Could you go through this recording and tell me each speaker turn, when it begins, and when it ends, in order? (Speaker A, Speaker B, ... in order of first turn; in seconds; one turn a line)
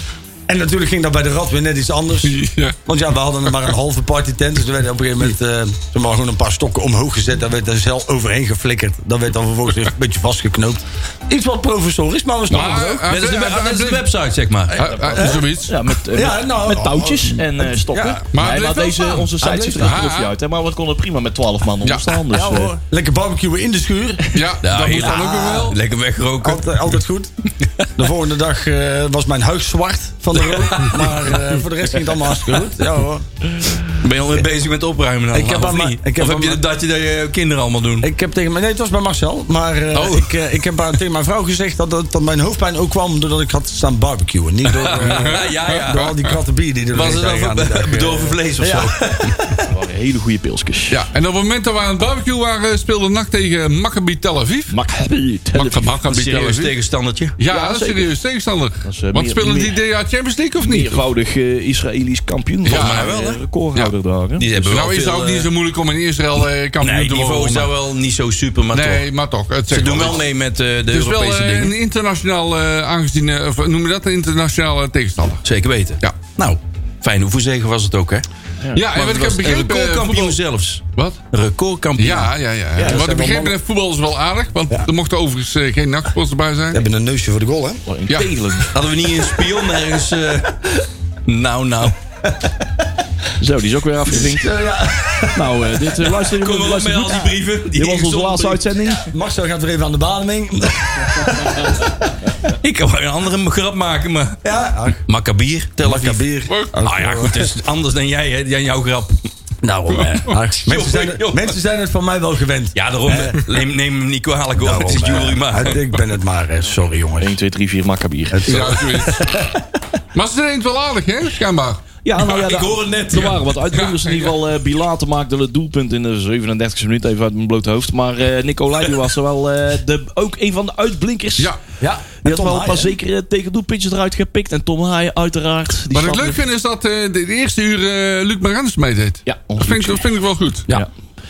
Speaker A: 0.5-13.1
Speaker B: 2.2-2.8
Speaker B: 12.5-14.1
Speaker C: 12.6-14.8
Speaker B: 14.8-15.9
Speaker D: 14.8-22.8
Speaker A: 15.2-15.5
Speaker A: 16.1-18.2
Speaker B: 18.3-20.4
Speaker A: 19.4-20.1
Speaker B: 21.8-22.2
Speaker A: 22.3-24.4
Speaker B: 24.3-25.8
Speaker C: 24.6-26.8
Speaker A: 25.0-25.7
Speaker A: 26.4-27.3
Speaker A: 27.9-33.3
Speaker C: 30.4-31.4
Speaker C: 34.0-38.1
Speaker A: 35.3-36.6
Speaker A: 38.0-49.6
Speaker C: 39.9-40.3
Speaker C: 44.7-46.1
Speaker B: 45.0-46.4
Speaker C: 46.9-49.4
Speaker D: 49.7-51.0
Speaker B: 50.9-54.7
Speaker D: 54.7-55.9
Speaker B: 55.5-56.7
Speaker C: 56.1-57.4
Speaker B: 57.4-61.0
Speaker D: 57.5-58.1
Speaker D: 58.8-59.8
Speaker D: 60.6-64.8
Speaker B: 62.6-63.1
Speaker C: 62.6-63.4
Speaker C: 64.4-65.5
Speaker B: 64.7-67.7
Speaker C: 66.8-69.0
Speaker B: 68.7-70.3
Speaker C: 69.7-71.7
Speaker B: 70.9-75.5
Speaker C: 75.4-78.3
Speaker B: 78.7-80.4
Speaker C: 78.9-82.3
Speaker B: 81.0-81.2
Speaker B: 82.0-86.8
Speaker A: 82.8-83.6
Speaker A: 86.7-87.8
Speaker D: 87.9-88.7
Speaker C: 88.7-92.0
Speaker D: 93.4-94.6
Speaker A: 94.1-95.8
Speaker D: 95.3-99.1
Speaker C: 96.2-98.7
Speaker A: 98.9-101.9
Speaker C: 102.6-104.4
Speaker A: 104.4-105.0
Speaker C: 105.1-106.2
Speaker A: 105.8-107.5
Speaker B: 106.5-106.8
Speaker C: 106.8-109.2
Speaker A: 109.6-113.4
Speaker C: 110.6-111.5
Speaker C: 112.8-115.8
Speaker A: 114.6-117.4
Speaker D: 117.2-118.7
Speaker A: 118.3-119.5
Speaker B: 118.5-119.4
Speaker B: 120.1-121.8
Speaker D: 122.0-131.5
Speaker C: 122.2-123.5
Speaker B: 123.7-124.3
Speaker A: 131.8-132.9
Speaker D: 132.2-136.4
Speaker B: 135.9-140.7
Speaker D: 139.3-140.0